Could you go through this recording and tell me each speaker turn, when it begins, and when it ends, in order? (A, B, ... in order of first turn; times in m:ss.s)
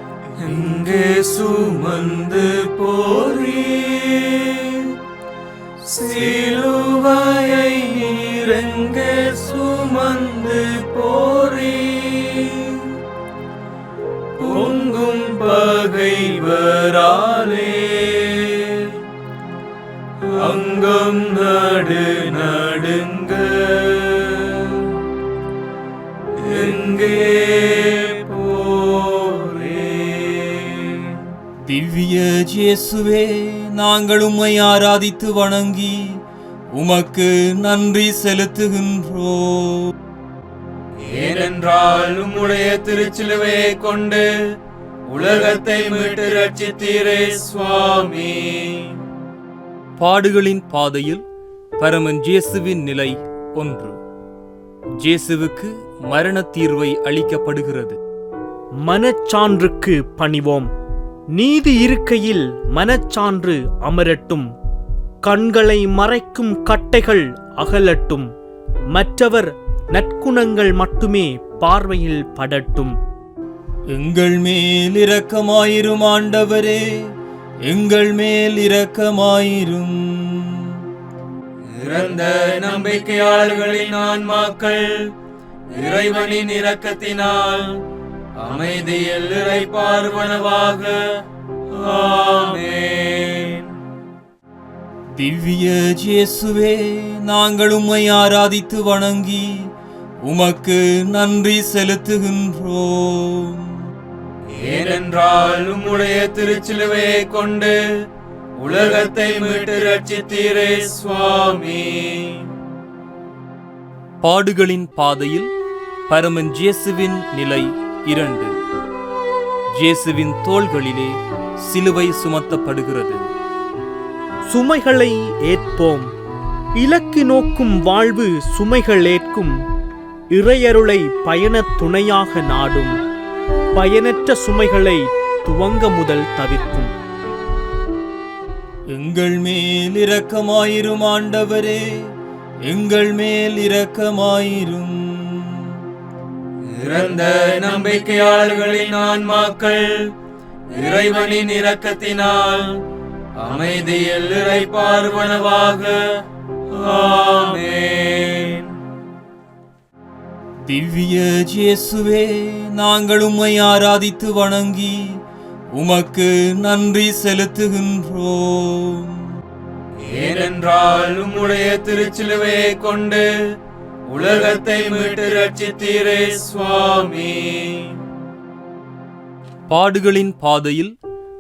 0:00.4-0:04.8 A
0:05.9-0:12.8 A
0:14.4-0:18.8 A
0:20.4-0:24.6 A
0:26.4-0:30.8 A
0:31.7-0:36.2 B
0:36.7-0:40.0 B
0:41.0-0:44.3 A
0:45.1-0:49.0 A
0:50.0-0:51.2 B
0:51.8-0:54.0 B
0:55.0-0:58.0 B
0:58.8-1:00.7 C
1:01.4-1:04.5 C
1:05.2-1:08.3 C
1:08.9-1:13.0 C
1:13.9-1:17.1 B
1:17.7-1:20.8 B
1:21.8-1:25.1 A
1:25.7-1:27.7 A
1:28.4-1:31.0 A
1:31.8-1:33.7 A
1:35.2-1:39.7 B
1:40.2-1:43.8 B
1:44.5-1:47.8 A
1:48.6-1:52.5 A
1:54.2-1:55.5 B
1:56.1-1:58.5 B
1:59.8-2:01.2 B
2:01.7-2:03.2 B
2:04.5-2:06.1 C
2:06.8-2:09.6 C
2:10.3-2:13.0 C
2:13.8-2:16.9 C
2:18.9-2:22.1 B
2:22.7-2:25.8 B
2:26.8-2:30.1 A
2:30.7-2:32.7 A
2:33.4-2:36.0 A
2:36.8-2:38.7 A
2:40.7-2:45.2 B
2:45.8-2:49.4 B
2:50.0-2:53.3 A
2:54.1-2:57.9 A
2:59.7-3:00.9 B